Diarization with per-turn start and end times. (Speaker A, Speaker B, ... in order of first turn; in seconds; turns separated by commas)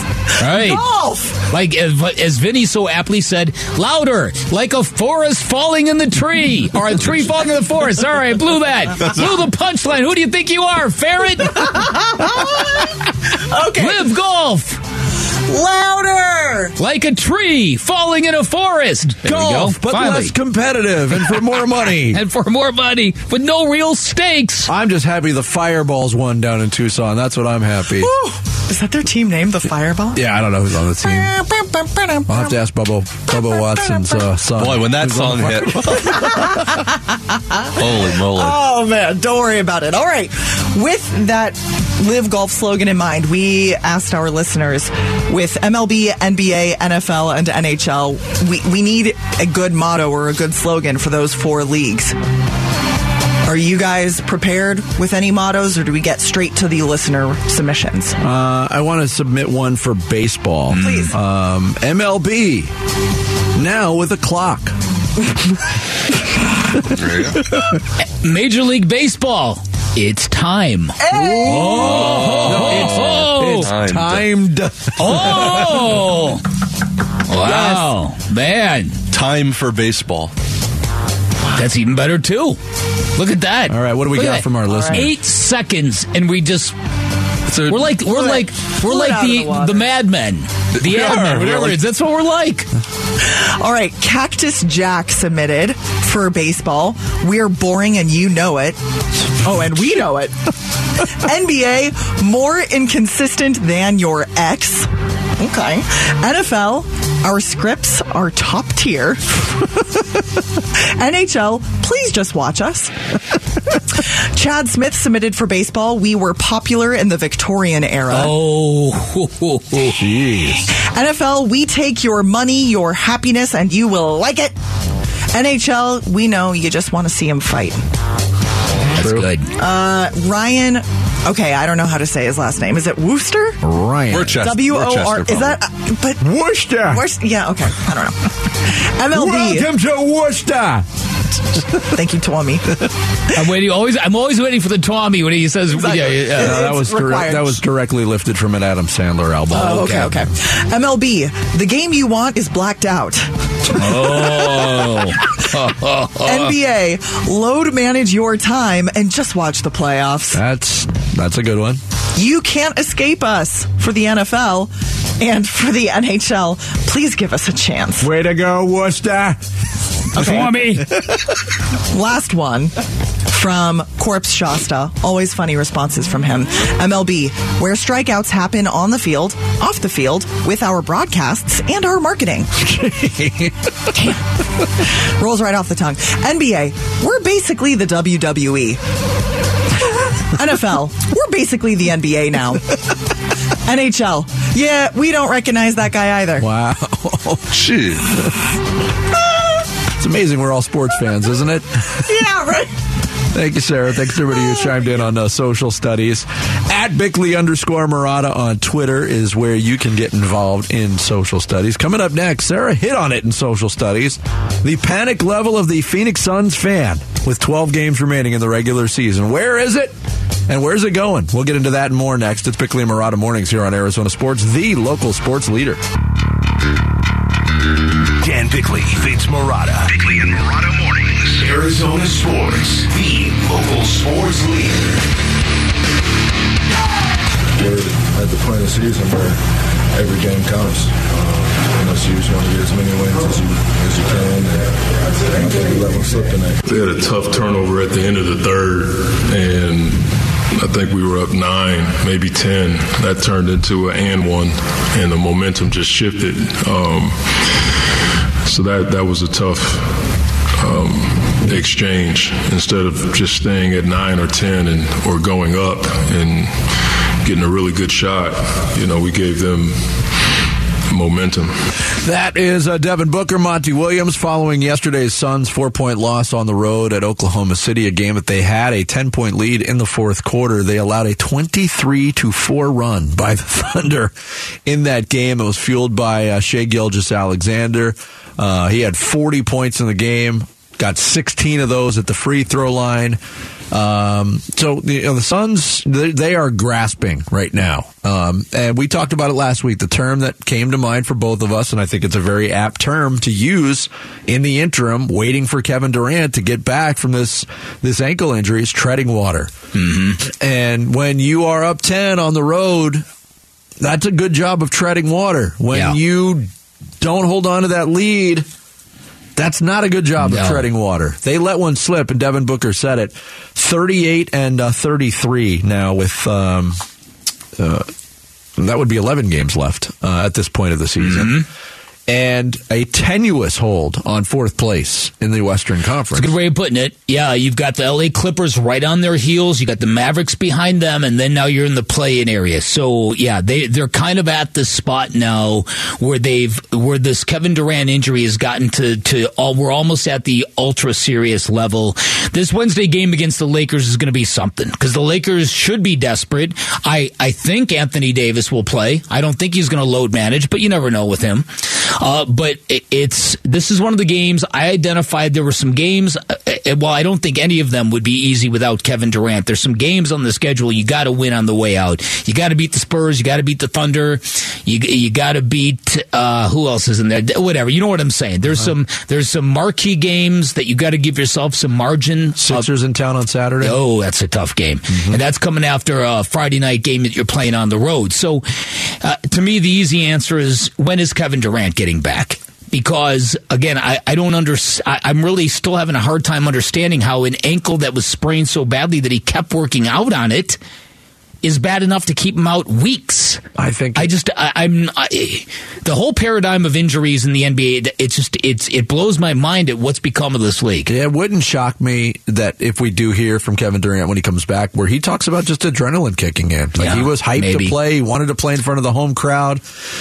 Speaker A: 0.4-0.8, Speaker B: 0.4-1.4, Speaker A: 1.4-11.7, Speaker B: 11.5-14.1, Speaker A: 13.8-14.8, Speaker B: 15.4-16.8, Speaker A: 16.8-20.3, Speaker C: 19.2-22.2, Speaker A: 21.2-24.7, Speaker C: 24.7-28.1, Speaker B: 27.9-30.2, Speaker C: 30.1-31.3, Speaker B: 31.0-32.6, Speaker C: 32.3-36.5, Speaker B: 33.3-34.3, Speaker D: 34.6-36.2, Speaker B: 35.9-52.1, Speaker D: 37.8-38.6, Speaker B: 53.4-58.2, Speaker C: 58.2-62.7, Speaker A: 60.7-61.1, Speaker B: 60.8-61.1, Speaker C: 63.5-64.8, Speaker D: 66.9-67.4, Speaker C: 67.0-67.8, Speaker A: 68.0-73.7, Speaker B: 71.0-72.4, Speaker C: 71.1-76.0, Speaker D: 72.6-74.3, Speaker A: 75.0-76.4, Speaker A: 77.3-79.0, Speaker C: 77.5-77.8, Speaker D: 79.1-80.3, Speaker A: 81.5-82.6, Speaker A: 83.2-86.8, Speaker C: 83.7-85.1, Speaker B: 84.7-85.0, Speaker D: 87.5-87.8, Speaker A: 87.7-92.7, Speaker B: 87.9-89.9, Speaker D: 90.8-91.8, Speaker B: 93.2-98.8, Speaker B: 99.4-100.3, Speaker B: 101.0-109.7, Speaker B: 110.8-112.9, Speaker B: 113.7-118.3, Speaker A: 118.1-120.0, Speaker C: 119.9-120.7, Speaker B: 120.5-124.5, Speaker B: 125.3-127.8, Speaker A: 128.9-129.5, Speaker C: 128.9-129.3, Speaker B: 129.6-133.6, Speaker C: 133.6-134.5, Speaker D: 134.1-135.6, Speaker B: 134.4-136.2, Speaker C: 136.2-137.0, Speaker B: 136.9-139.7, Speaker C: 139.1-140.9, Speaker C: 141.5-141.9, Speaker B: 141.8-142.8, Speaker A: 143.3-146.6, Speaker C: 145.8-150.3, Speaker B: 145.9-147.6, Speaker B: 149.5-154.3, Speaker A: 153.7-156.5, Speaker B: 156.2-160.4, Speaker C: 160.3-161.8, Speaker B: 162.2-168.1, Speaker C: 168.0-169.4, Speaker C: 170.1-171.2, Speaker B: 170.2-170.5, Speaker A: 170.2-170.9, Speaker B: 171.9-172.7, Speaker B: 173.3-182.6, Speaker C: 182.6-183.6, Speaker B: 184.8-188.8, Speaker B: 190.0-192.8, Speaker B: 193.7-196.4, Speaker C: 196.4-197.5, Speaker D: 197.5-198.1, Speaker C: 199.9-202.1, Speaker B: 202.0-202.7, Speaker C: 203.3-219.9, Speaker C: 220.5-225.8, Speaker E: 228.2-235.0, Speaker F: 237.6-239.4, Speaker F: 239.9-246.6, Speaker G: 246.6-257.6, Speaker G: 258.4-266.7, Speaker G: 267.2-269.9, Speaker G: 270.9-271.5, Speaker C: 272.0-284.1, Speaker C: 284.6-293.2, Speaker C: 293.7-309.5, Speaker A: 309.8-310.2, Speaker C: 310.2-313.1, Speaker C: 313.8-316.5, Speaker A: 315.7-316.0, Speaker C: 317.0-318.5, Speaker C: 319.4-326.8, Speaker A: 320.2-320.6, Speaker C: 327.6-327.9, Speaker C: 328.6-331.4, Speaker A: 331.0-331.5, Speaker C: 332.1-336.3, Speaker A: 336.1-382.7, Speaker C: 378.5-378.7, Speaker C: 382.4-383.8, Speaker A: 383.6-400.6, Speaker C: 384.9-385.2, Speaker A: 401.4-403.4, Speaker C: 403.6-404.1, Speaker A: 403.9-410.9, Speaker C: 410.9-419.6, Speaker A: 416.8-417.8